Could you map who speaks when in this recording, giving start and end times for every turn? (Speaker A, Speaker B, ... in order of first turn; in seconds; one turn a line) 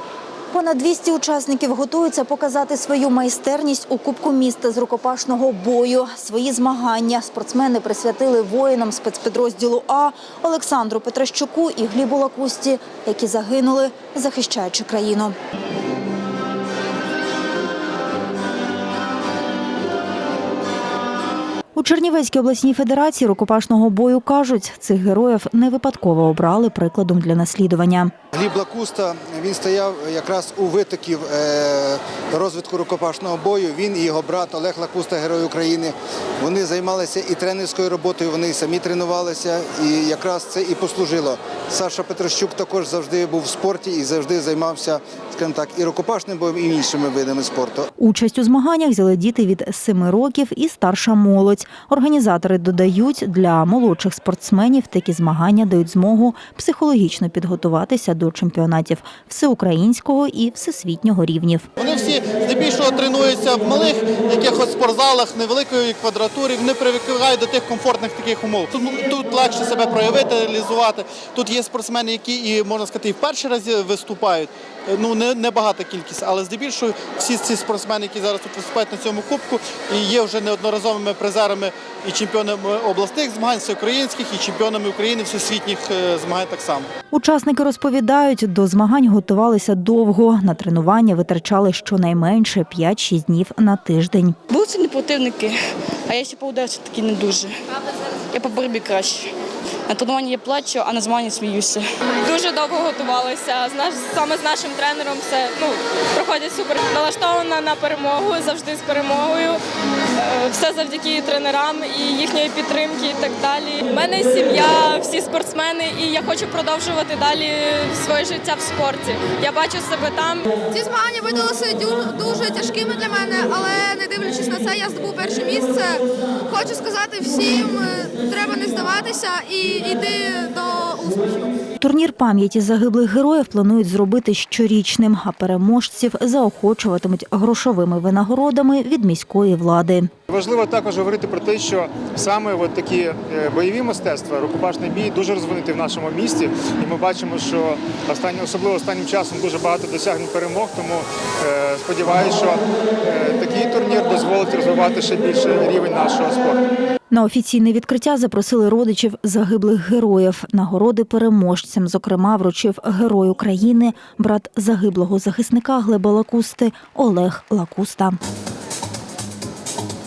Speaker A: 0.5-15.3
Speaker A: 21.8-28.1
Speaker B: 28.3-47.9
Speaker A: 48.0-61.7
Speaker C: 61.8-86.9
Speaker A: 87.1-94.4
Speaker D: 94.5-95.6
Speaker D: 96.1-97.5
Speaker D: 98.3-99.3
Speaker D: 99.9-101.8
Speaker E: 102.2-109.6
Speaker E: 110.2-120.5
Speaker F: 120.7-131.6
Speaker A: 131.8-140.1
Speaker G: 140.3-156.6
Speaker A: 157.1-168.2